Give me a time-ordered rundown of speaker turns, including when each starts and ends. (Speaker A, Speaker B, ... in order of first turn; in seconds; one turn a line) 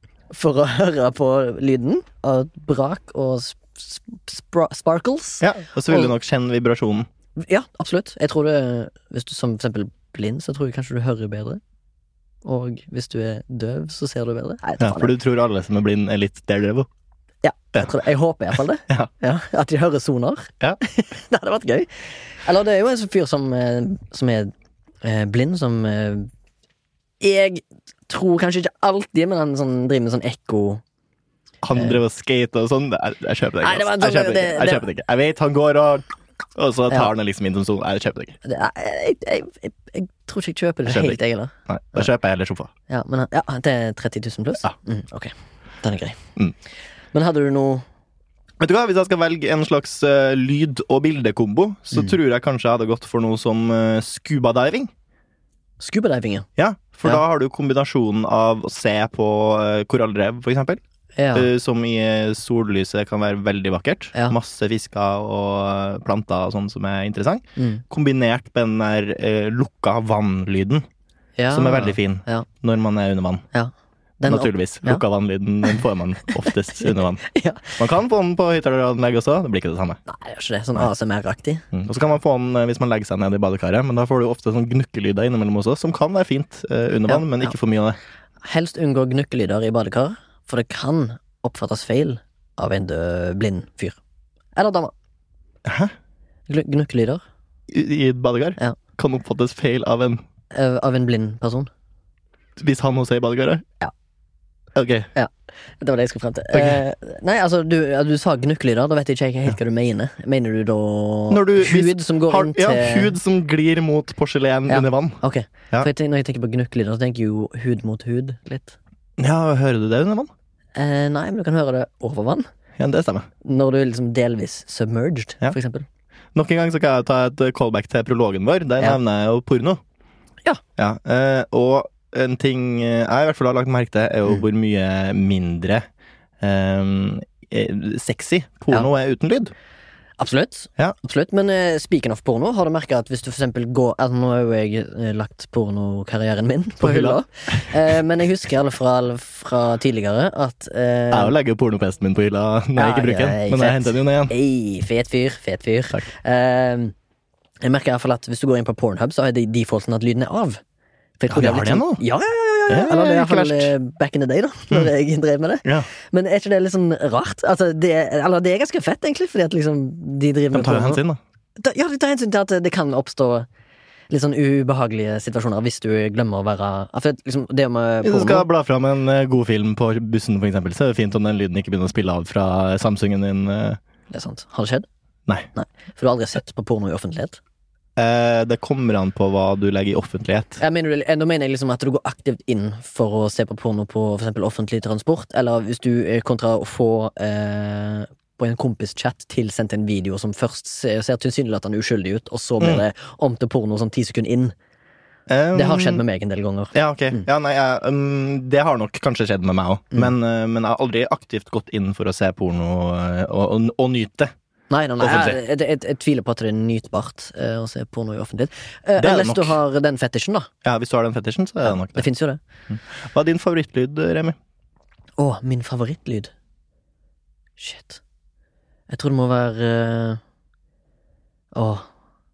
Speaker A: 0.3-6.1
Speaker B: 5.4-7.1
Speaker A: 7.4-11.6
Speaker A: 12.4-15.1
Speaker B: 14.8-16.9
Speaker A: 17.4-24.5
Speaker A: 25.0-26.3
Speaker A: 27.2-30.8
Speaker B: 31.6-38.4
Speaker A: 33.6-34.9
Speaker A: 38.4-42.0
Speaker B: 40.9-42.7
Speaker A: 42.9-46.2
Speaker A: 47.1-47.8
Speaker B: 48.6-54.9
Speaker A: 55.8-56.5
Speaker B: 56.6-60.8
Speaker A: 61.2-61.5
Speaker B: 61.3-70.8
Speaker A: 67.6-67.8
Speaker A: 71.4-72.5
Speaker B: 71.5-73.4
Speaker A: 73.5-75.0
Speaker B: 74.3-80.0
Speaker A: 76.8-77.8
Speaker A: 80.1-81.6
Speaker B: 81.7-88.0
Speaker A: 87.1-87.5
Speaker A: 88.4-94.0
Speaker A: 94.5-94.9
Speaker B: 95.6-95.9
Speaker A: 96.5-97.2
Speaker B: 97.7-100.2
Speaker A: 100.5-101.7
Speaker B: 102.6-103.6
Speaker B: 104.7-105.1
Speaker A: 105.1-113.2
Speaker B: 106.5-106.8
Speaker B: 111.3-115.2
Speaker A: 114.7-118.8
Speaker B: 119.2-120.3
Speaker A: 120.8-122.5
Speaker B: 122.8-123.3
Speaker A: 123.4-125.8
Speaker B: 126.3-129.8
Speaker B: 130.8-135.8
Speaker B: 136.4-139.5
Speaker A: 140.2-151.3
Speaker B: 146.8-147.9
Speaker B: 151.1-154.3
Speaker A: 152.8-156.9
Speaker A: 157.6-160.6
Speaker A: 161.2-171.0
Speaker B: 161.3-162.0
Speaker B: 162.7-163.7
Speaker B: 170.5-171.2
Speaker A: 171.6-173.5
Speaker A: 174.1-178.4
Speaker B: 178.0-183.8
Speaker A: 184.1-184.8
Speaker A: 185.5-187.4
Speaker B: 187.9-190.6
Speaker A: 190.6-204.5
Speaker B: 205.3-206.0
Speaker A: 205.5-207.2
Speaker B: 206.7-214.3
Speaker A: 214.7-220.5
Speaker B: 215.0-215.4
Speaker B: 219.0-219.6
Speaker B: 220.6-222.1
Speaker A: 221.6-222.4
Speaker B: 222.7-224.3
Speaker A: 225.2-226.3
Speaker A: 227.6-228.0
Speaker A: 228.9-230.2
Speaker A: 231.5-231.9